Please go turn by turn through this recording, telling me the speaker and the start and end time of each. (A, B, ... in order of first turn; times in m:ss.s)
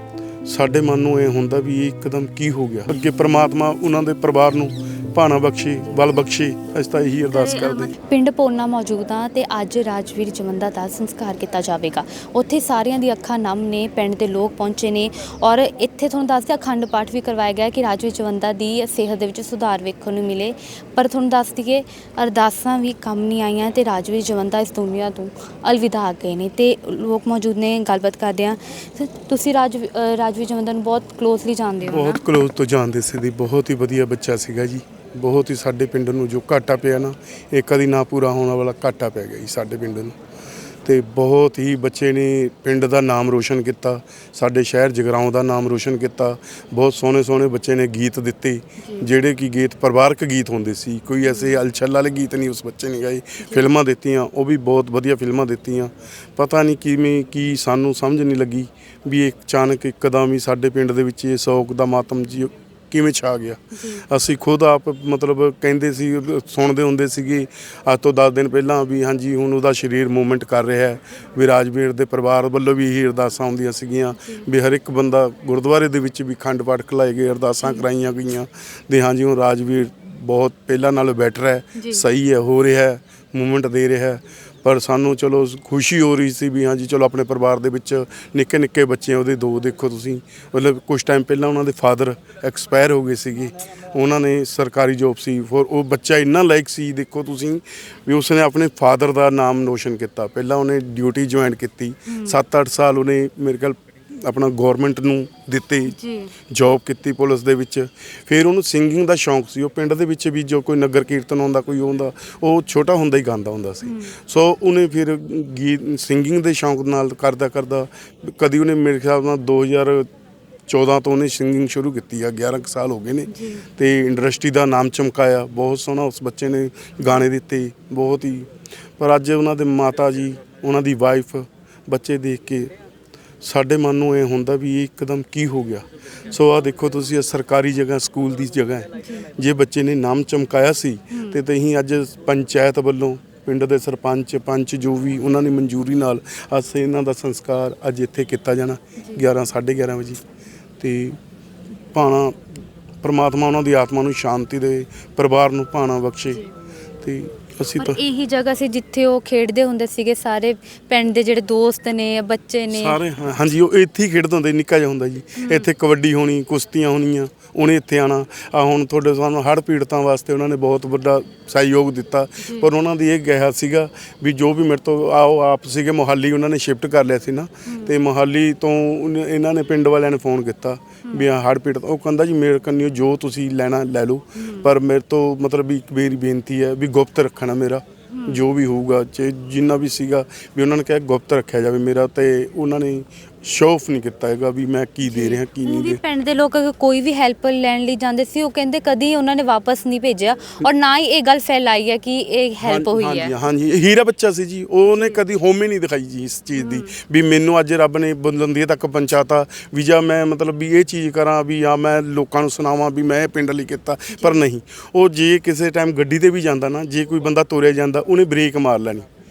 0:00.4-0:07.9 A
0:07.3-0:32.2 B
0:31.9-0:40.2 A
0:40.8-1:46.0 A
0:48.8-0:49.1 B
0:51.2-0:51.6 B
0:53.4-0:53.7 B
1:03.7-1:04.0 B
1:14.2-1:14.5 B
1:21.7-1:22.0 B
1:42.1-1:42.4 B
1:45.9-1:46.3 B
1:46.5-2:00.1 A
1:53.8-1:54.2 B
2:00.7-2:12.7 A
2:03.3-2:03.6 B
2:13.4-2:30.2 A
2:19.0-2:19.3 B
2:21.1-2:21.4 B
2:29.0-2:29.3 B
2:30.8-2:31.2 A
2:31.9-2:32.4 A
2:33.0-2:36.4 A
2:37.0-2:38.0 A
2:37.8-2:43.0 B
2:42.7-3:16.0 A
2:45.4-2:45.7 B
2:52.4-2:52.7 B
2:57.6-2:57.9 B
3:04.4-3:04.7 B
3:08.1-3:08.4 B
3:15.1-3:23.3 B
3:22.6-3:39.1 A
3:24.9-3:25.2 B
3:26.6-3:26.9 B
3:34.1-3:34.4 B